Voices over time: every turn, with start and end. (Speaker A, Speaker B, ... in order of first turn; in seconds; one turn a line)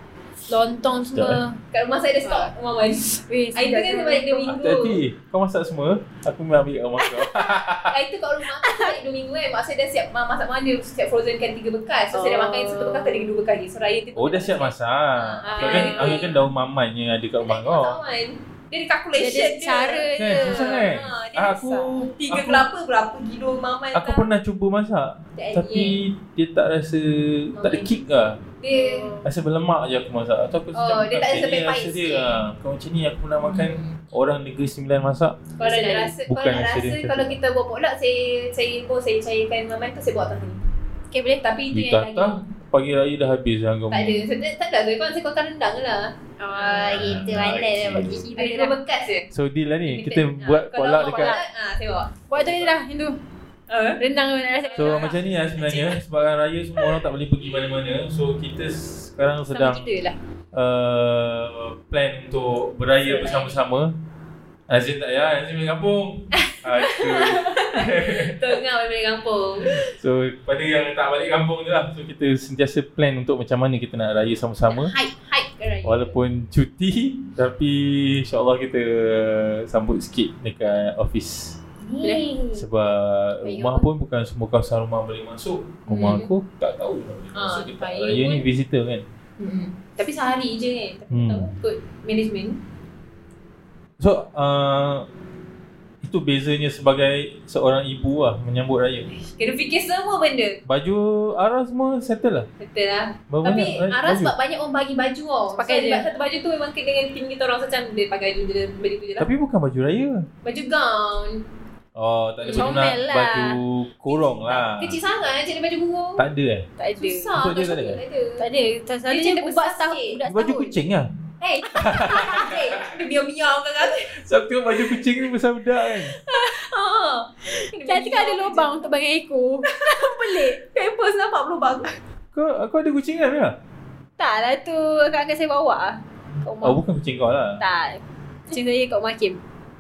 Speaker A: 0.5-1.6
Speaker B: 1.1-1.4
Speaker C: 1.7-5.0
Speaker A: 2.2-2.5
Speaker A: 3.1-4.5
Speaker B: 4.5-7.9
Speaker C: 7.9-16.4
Speaker A: 8.6-8.9
Speaker A: 12.1-13.2
Speaker B: 14.2-18.0
Speaker A: 15.4-16.3
Speaker C: 17.4-24.3
Speaker A: 19.2-20.8
Speaker B: 20.1-22.6
Speaker B: 23.9-28.4
Speaker C: 25.4-26.0
Speaker C: 27.6-27.9
Speaker C: 28.6-29.1
Speaker A: 28.7-29.2
Speaker B: 29.2-35.4
Speaker C: 30.7-32.4
Speaker C: 33.4-34.0
Speaker C: 35.6-40.6
Speaker A: 35.6-36.1
Speaker B: 36.3-37.3
Speaker A: 41.1-41.4
Speaker C: 41.4-42.4
Speaker B: 41.7-44.2
Speaker C: 43.9-47.0
Speaker A: 46.4-48.8
Speaker B: 46.8-48.2
Speaker C: 48.4-49.3
Speaker B: 49.3-51.4
Speaker C: 49.9-52.4
Speaker A: 51.0-51.4
Speaker A: 52.3-53.2
Speaker C: 53.7-54.0
Speaker A: 54.0-55.1
Speaker C: 54.6-56.0
Speaker B: 54.8-59.9
Speaker A: 59.5-60.2
Speaker B: 60.5-63.9
Speaker C: 63.1-63.5
Speaker B: 64.7-68.4
Speaker C: 66.4-69.8
Speaker B: 69.7-74.9
Speaker C: 74.7-76.1
Speaker B: 75.8-81.6
Speaker C: 81.8-82.6
Speaker A: 82.0-82.3
Speaker B: 82.5-89.0
Speaker A: 83.4-83.9
Speaker C: 85.9-86.3
Speaker C: 87.3-88.4
Speaker C: 89.4-92.6
Speaker B: 91.1-91.5
Speaker B: 94.0-95.1
Speaker B: 96.0-99.1
Speaker C: 99.2-100.6
Speaker B: 100.7-102.5
Speaker C: 102.6-109.3
Speaker B: 103.3-104.3
Speaker A: 105.5-106.0
Speaker B: 109.2-110.2
Speaker C: 110.4-111.4
Speaker B: 112.0-115.0
Speaker C: 112.4-112.9
Speaker A: 112.5-113.6
Speaker C: 114.4-116.2
Speaker B: 116.2-116.7
Speaker A: 116.8-117.3
Speaker C: 117.0-118.4
Speaker B: 117.3-118.0
Speaker A: 118.4-120.7
Speaker C: 119.1-120.2
Speaker B: 120.3-121.1
Speaker C: 121.4-124.1
Speaker B: 121.8-122.7
Speaker B: 124.1-126.1
Speaker C: 126.2-128.8
Speaker A: 127.8-130.6
Speaker C: 129.7-132.0
Speaker B: 132.3-133.6
Speaker A: 134.2-136.8
Speaker B: 136.6-137.6
Speaker A: 137.6-139.4